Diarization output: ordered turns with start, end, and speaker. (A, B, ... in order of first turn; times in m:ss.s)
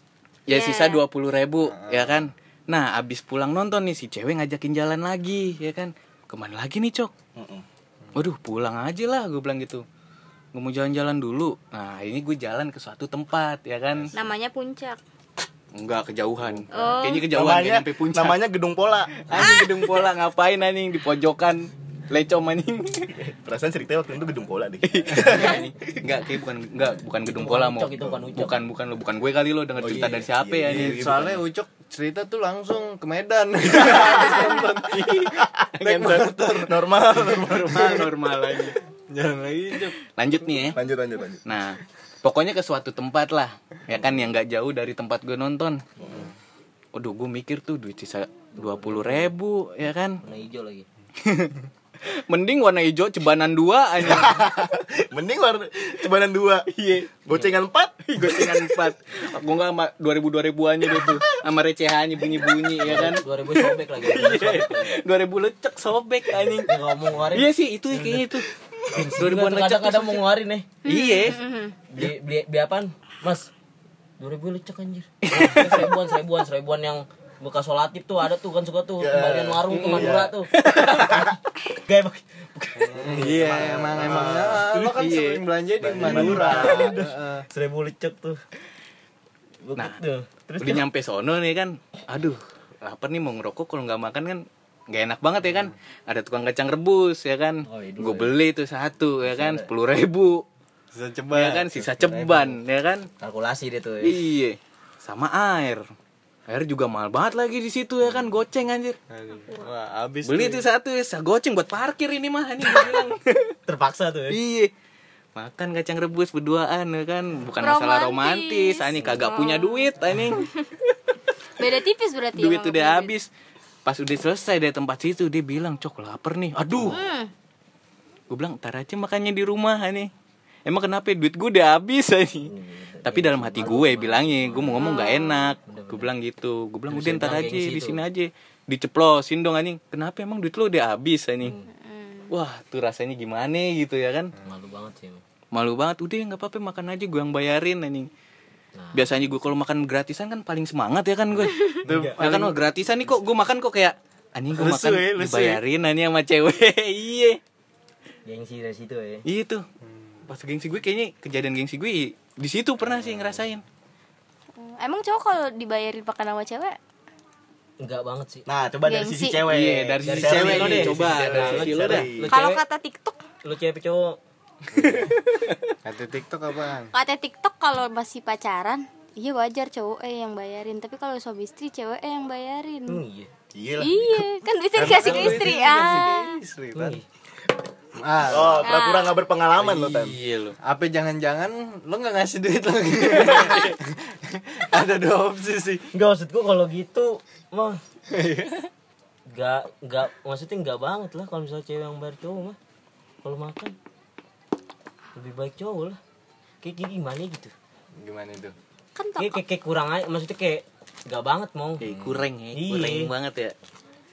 0:00.5-0:07.1 A
0:00.5-0:01.0 B
0:01.7-0:02.3 C
0:07.4-0:07.6 D
0:08.2-0:09.8 A
0:10.5-0:14.1 A
0:14.1-0:15.0 B
0:15.7-0:18.4 A
0:16.7-0:17.3 B
0:17.2-0:19.2 D
0:19.3-0:23.2 A
0:19.3-0:20.0 B
0:23.1-0:25.7 D
0:24.8-0:31.3 A
0:27.3-0:28.6 E
0:29.8-0:31.4 D
0:30.6-0:36.8 C
0:33.8-0:34.3 D
0:35.2-0:35.6 D
0:35.8-0:36.7 A
0:36.6-0:38.1 D
0:37.2-0:38.8 A
0:39.1-0:40.0 C
0:40.0-0:40.8 A
0:40.7-0:41.4 D
0:41.5-0:45.8 A
0:46.0-0:46.3 D
0:46.9-0:50.2 A
0:48.6-0:49.3 E
0:50.2-0:50.9 E
0:51.2-0:54.4 A
0:54.0-0:56.7 D
0:56.7-0:57.2 A
0:57.2-0:58.6 D
0:58.1-1:11.4 A
1:02.8-1:05.0 E
1:06.6-1:08.3 E
1:08.9-1:10.7 E
1:10.8-1:11.7 B
1:11.9-1:13.5 E
1:14.2-1:24.4 E
1:15.2-1:16.0 A
1:19.0-1:20.4 D
1:19.7-1:21.2 A
1:22.8-1:27.5 C
1:23.1-1:24.7 D
1:24.7-1:25.5 A
1:25.8-1:27.1 D
1:25.9-1:28.4 E
1:29.6-1:30.8 E
1:30.6-1:40.4 A
1:37.6-1:38.4 E
1:39.2-1:39.7 E
1:40.9-1:41.9 C
1:41.3-1:43.1 A
1:41.8-1:42.5 E
1:43.2-1:44.2 E
1:44.0-1:45.8 A
1:46.5-1:49.0 A
1:48.1-1:48.3 E
1:49.1-1:50.6 C
1:50.2-1:53.5 A
1:53.7-1:54.4 E
1:54.3-1:54.7 A
1:55.4-2:00.5 A
1:57.6-2:00.7 B
2:01.6-2:03.1 B
2:02.4-2:03.3 A
2:03.8-2:07.0 A
2:06.8-2:07.3 B
2:08.3-2:10.1 A
2:10.7-2:12.5 A
2:12.4-2:15.0 E
2:13.0-2:21.6 A
2:14.6-2:15.6 B
2:15.6-2:16.1 E
2:16.9-2:18.0 E
2:21.4-2:21.7 E
2:21.7-2:22.3 B
2:22.3-2:24.3 A
2:24.4-2:25.2 E
2:25.5-2:28.1 A
2:28.8-2:29.3 E
2:28.9-2:37.4 A
2:31.5-2:31.8 B
2:31.8-2:32.5 E
2:31.8-2:32.6 C
2:34.5-2:35.6 C
2:38.3-2:39.2 E
2:39.3-2:39.6 A
2:39.8-2:40.2 C
2:40.3-2:43.6 A
2:42.9-2:43.4 C
2:44.6-2:46.8 B
2:47.8-2:48.5 E
2:48.5-2:52.3 D
2:48.8-2:49.5 B
2:49.5-2:52.1 A
2:50.0-2:52.6 E
2:51.1-2:51.6 C
2:52.3-2:53.2 B
2:53.4-2:54.2 E
2:54.7-2:55.2 C
2:55.0-2:55.6 A
2:55.8-2:56.9 C
2:56.9-3:03.0 B
3:02.9-3:03.3 E
3:03.5-3:04.2 D
3:03.8-3:06.4 B
3:04.8-3:07.0 C
3:05.0-3:05.5 E
3:06.7-3:07.0 E
3:08.0-3:08.7 C
3:08.2-3:10.2 D
3:08.6-3:09.2 B
3:09.6-3:10.6 A
3:10.6-3:15.9 C
3:13.3-3:13.6 A
3:15.9-3:17.8 E
3:18.1-3:18.6 C
3:19.3-3:22.6 E
3:23.2-3:23.8 E
3:25.2-3:26.0 E
3:26.6-3:27.5 E
3:28.0-3:28.6 C
3:29.0-3:29.4 B
3:29.2-3:31.9 E
3:31.8-3:33.6 A
3:31.8-3:32.2 C
3:32.5-3:33.1 E